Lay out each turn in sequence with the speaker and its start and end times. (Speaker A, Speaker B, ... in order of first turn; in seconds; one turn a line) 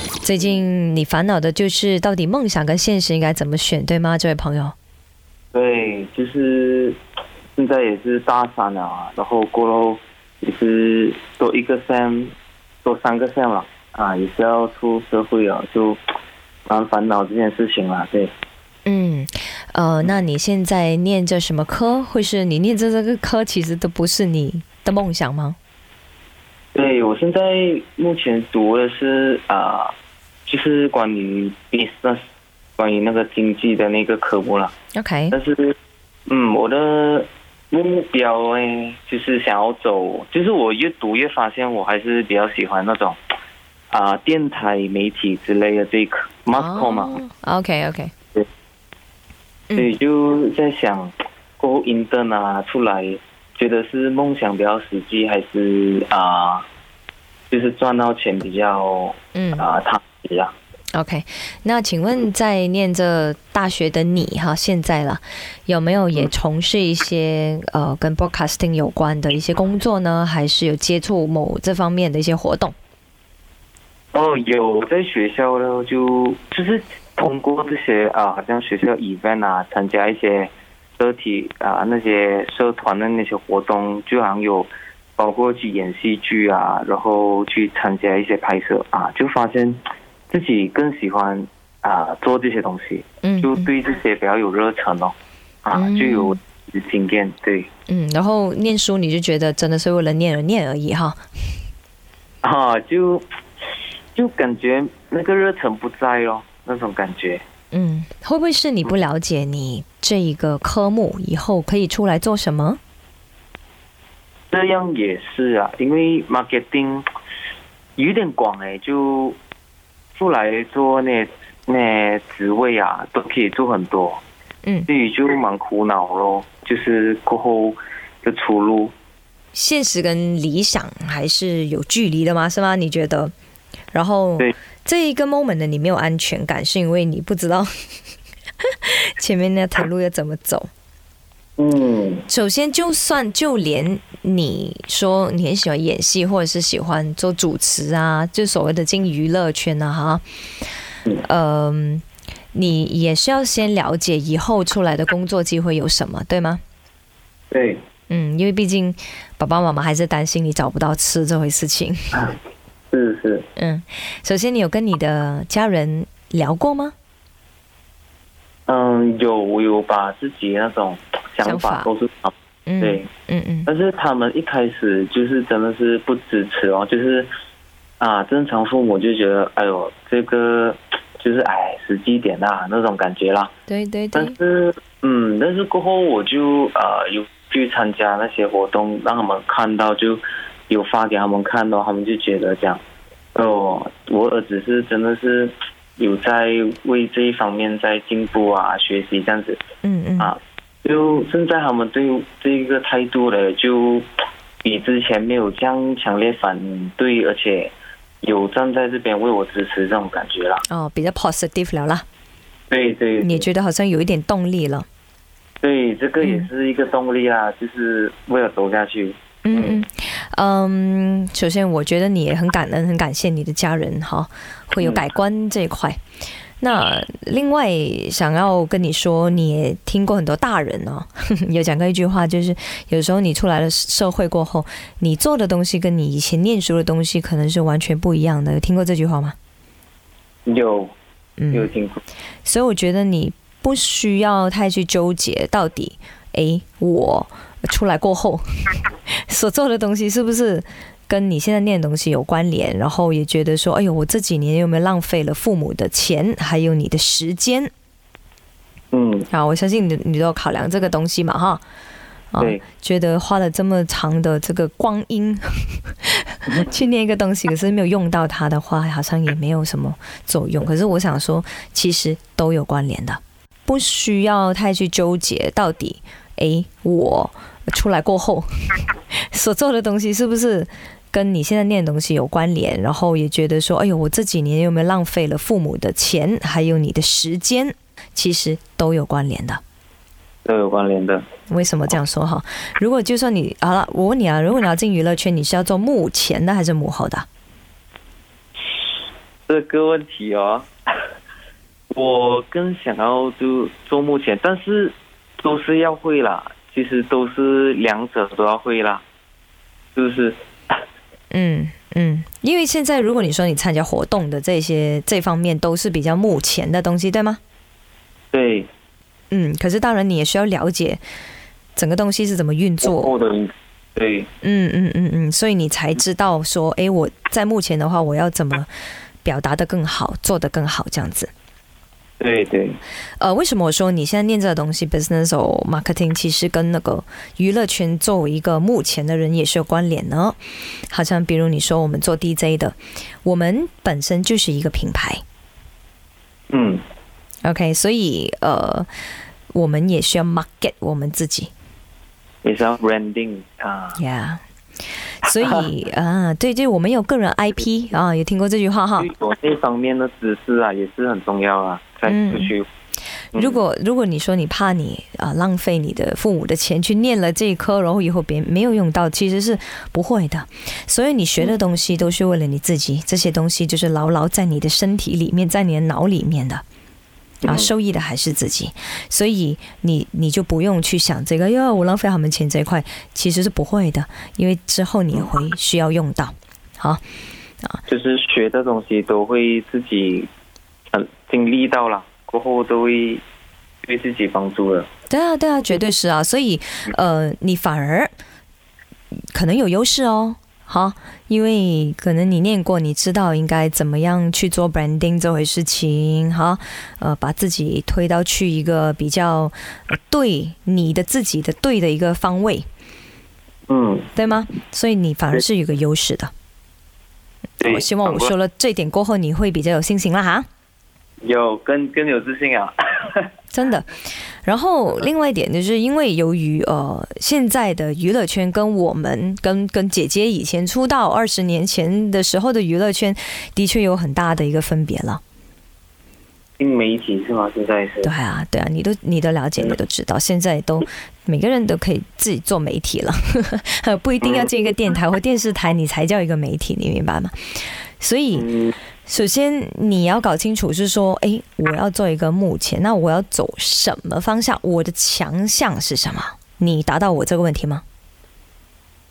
Speaker A: 0.2-4.8
Speaker B: 5.5-7.0
Speaker B: 7.6-12.3
Speaker B: 12.8-16.0
Speaker B: 16.6-18.3
Speaker A: 18.8-25.6
Speaker B: 26.7-29.9
Speaker B: 30.5-32.2
Speaker B: 32.8-34.7
Speaker A: 34.9-35.4
Speaker B: 35.3-35.8
Speaker B: 36.3-43.2
Speaker B: 43.9-47.2
Speaker A: 46.5-48.1
Speaker B: 49.7-56.6
Speaker B: 57.5-60.5
Speaker A: 59.3-59.7
Speaker A: 60.9-72.8
Speaker B: 74.1-97.7
Speaker A: 93.2-93.7
Speaker A: 95.7-96.4
Speaker A: 97.9-101.2
Speaker B: 102.4-103.2
Speaker B: 104.1-107.4
Speaker A: 107.7-112.8
Speaker B: 114.5-117.1
Speaker B: 118.0-119.4
Speaker B: 120.1-124.2
Speaker B: 124.9-128.9
Speaker A: 129.5-133.3
Speaker A: 133.9-137.7
Speaker A: 138.6-140.7
Speaker B: 141.6-142.2
Speaker A: 142.3-150.2
Speaker A: 151.2-156.6
Speaker B: 157.5-157.8
Speaker A: 158.1-162.2
Speaker B: 162.9-163.5
Speaker A: 163.6-166.9
Speaker B: 168.7-173.1
Speaker A: 171.4-171.9
Speaker A: 172.7-173.7
Speaker B: 173.7-177.3
Speaker B: 178.0-183.5
Speaker A: 183.7-184.4
Speaker B: 184.1-192.8
Speaker B: 193.3-199.6
Speaker A: 199.8-200.3
Speaker B: 200.2-204.1
Speaker B: 204.6-210.6
Speaker A: 210.7-212.0
Speaker B: 212.7-213.5
Speaker A: 213.2-214.8
Speaker B: 215.6-219.8
Speaker A: 216.2-216.5
Speaker A: 219.4-226.0
Speaker A: 226.6-239.3
Speaker B: 240.5-240.9
Speaker A: 241.4-241.7
Speaker B: 241.5-242.0
Speaker A: 242.4-257.7
Speaker B: 258.9-259.3
Speaker A: 259.3-261.6
Speaker A: 262.3-289.6
Speaker B: 290.4-291.2
Speaker A: 291.5-297.3
Speaker B: 299.5-300.7
Speaker B: 301.9-309.0
Speaker B: 310.0-310.4
Speaker A: 311.3-317.4
Speaker B: 318.3-318.7
Speaker A: 319.3-321.0
Speaker A: 321.8-323.1
Speaker B: 322.8-324.3
Speaker A: 324.4-328.7
Speaker A: 329.2-331.3
Speaker B: 332.2-332.8
Speaker A: 333.2-340.4
Speaker A: 340.9-345.2
Speaker B: 346.5-346.8
Speaker A: 347.4-348.9
Speaker A: 349.5-351.5
Speaker B: 352.4-354.0
Speaker A: 354.0-354.4
Speaker A: 355.2-359.1
Speaker B: 355.2-355.7
Speaker B: 359.0-362.7
Speaker A: 362.1-362.5
Speaker B: 363.3-363.6
Speaker A: 363.3-376.6
Speaker B: 377.4-377.7
Speaker A: 377.5-387.0
Speaker B: 387.9-390.3
Speaker B: 390.9-393.2
Speaker B: 393.9-394.9
Speaker A: 395.1-398.1
Speaker A: 399.3-412.7
Speaker B: 413.7-414.1
Speaker A: 414.1-416.3
Speaker B: 417.6-418.3
Speaker A: 417.6-420.5
Speaker B: 421.2-423.3
Speaker A: 423.5-423.9
Speaker A: 424.4-435.2
Speaker B: 436.6-438.1
Speaker A: 438.0-448.5
Speaker B: 444.2-444.5
Speaker B: 448.4-448.8
Speaker A: 449.1-457.8